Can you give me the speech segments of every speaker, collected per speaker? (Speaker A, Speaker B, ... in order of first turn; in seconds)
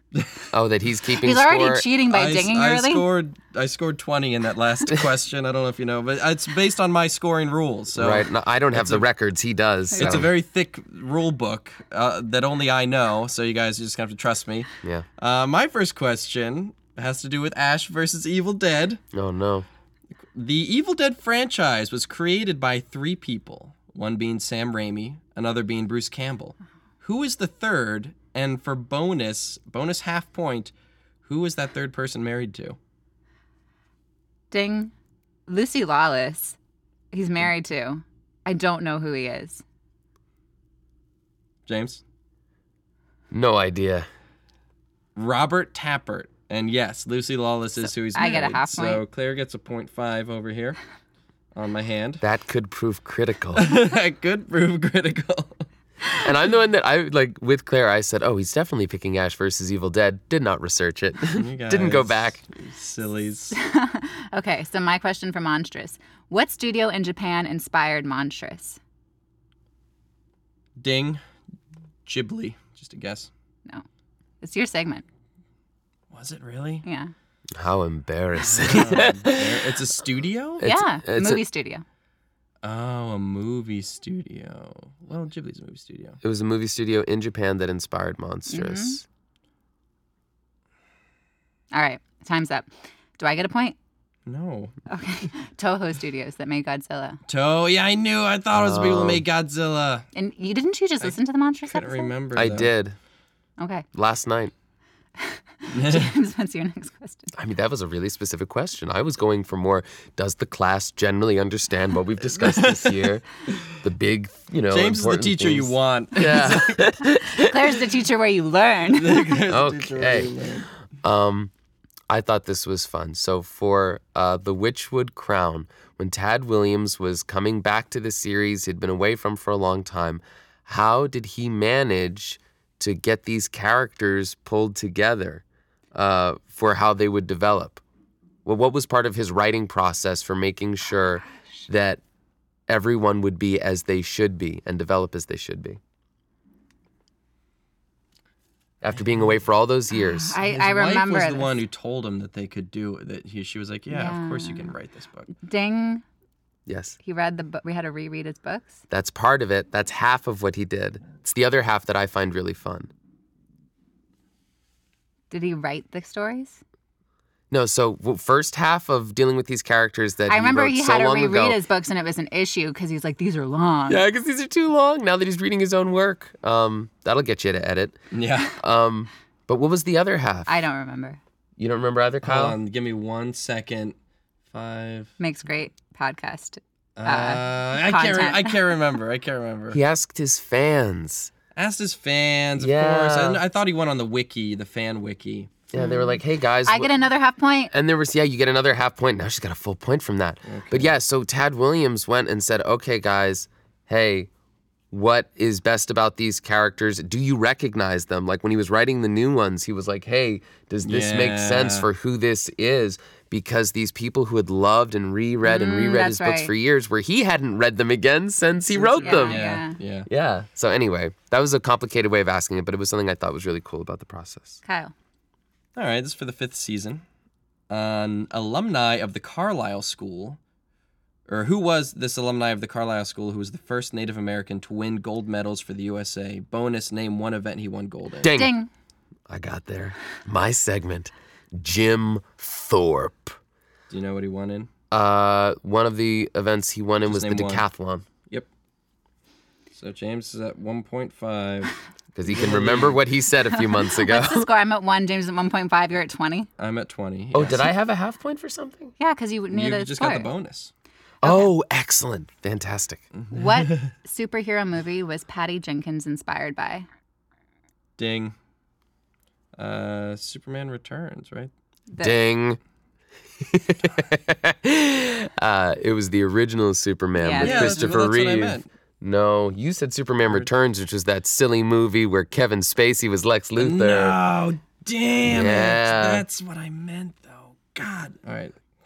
Speaker A: 0.5-1.9, 8.0-10.3, 19.1-19.7, 43.3-44.1, 52.2-53.6, 56.2-62.4, 77.6-79.7, 80.6-81.4, 86.2-89.0, 98.5-99.2, 102.4-103.0, 103.9-104.5, 107.3-113.2, 113.8-117.6, 119.5-120.3, 121.0-121.5, 122.1-137.8, 138.4-142.0, 142.7-145.8, 148.8-150.4, 156.7-157.0, 158.9-162.9, 167.5-171.6, 173.9-178.0, 178.6-180.5, 181.6-182.6, 189.7-191.3, 192.6-193.4, 195.7-196.9, 197.7-204.3, 204.9-219.5, 220.1-224.6, 238.2-238.5, 239.3-243.4, 244.9-248.1, 252.2-254.5, 257.3-258.9, 261.2-263.0, 272.0-272.6, 273.4-284.2, 285.2-286.2
Speaker B: 1.2-3.0, 9.9-10.2, 34.5-34.9, 35.5-36.6, 37.1-39.6, 48.1-49.0, 63.5-68.8, 74.4-75.0, 76.8-77.1, 80.6-81.8, 88.5-89.0, 91.7-93.8, 94.9-97.2, 100.2-102.1, 103.6-103.8, 105.2-107.3, 117.2-119.4, 149.9-151.5, 153.9-154.7, 155.4-156.0, 157.0-158.8, 165.3-166.6, 170.3-174.0, 180.5-181.2, 185.2-188.6, 195.7-197.7, 215.4-216.5, 219.0-219.8, 224.7-224.9, 238.3-238.7, 253.5-256.5, 259.0-260.3, 263.3-266.9, 271.9-272.2, 277.2-277.9
Speaker C: 2.1-9.1, 10.0-19.0, 20.3-30.7, 31.2-32.8, 41.7-42.0, 45.2-50.8, 51.5-52.2, 53.5-55.6, 61.4-63.5, 70.8-71.2, 72.1-73.3, 76.1-76.8, 78.4-80.7, 82.6-86.2, 94.3-94.7, 97.3-100.1, 101.7-102.7, 105.7-106.1, 112.4-113.7, 114.7-116.8, 118.9-120.7, 150.4-155.3, 178.1-178.6, 182.2-183.9, 184.5-185.1, 187.0-189.8, 191.6-195.5, 200.4-200.9, 210.8-211.9, 218.8-220.1, 225.8-227.0, 227.7-230.4, 231.3-238.3, 243.9-244.7, 247.1-247.7, 249.7-251.8, 252.3-253.0, 256.6-257.7, 259.5-260.7, 263.2-263.9, 268.0-268.4, 269.6-271.5, 277.4-278.7, 283.6-288.6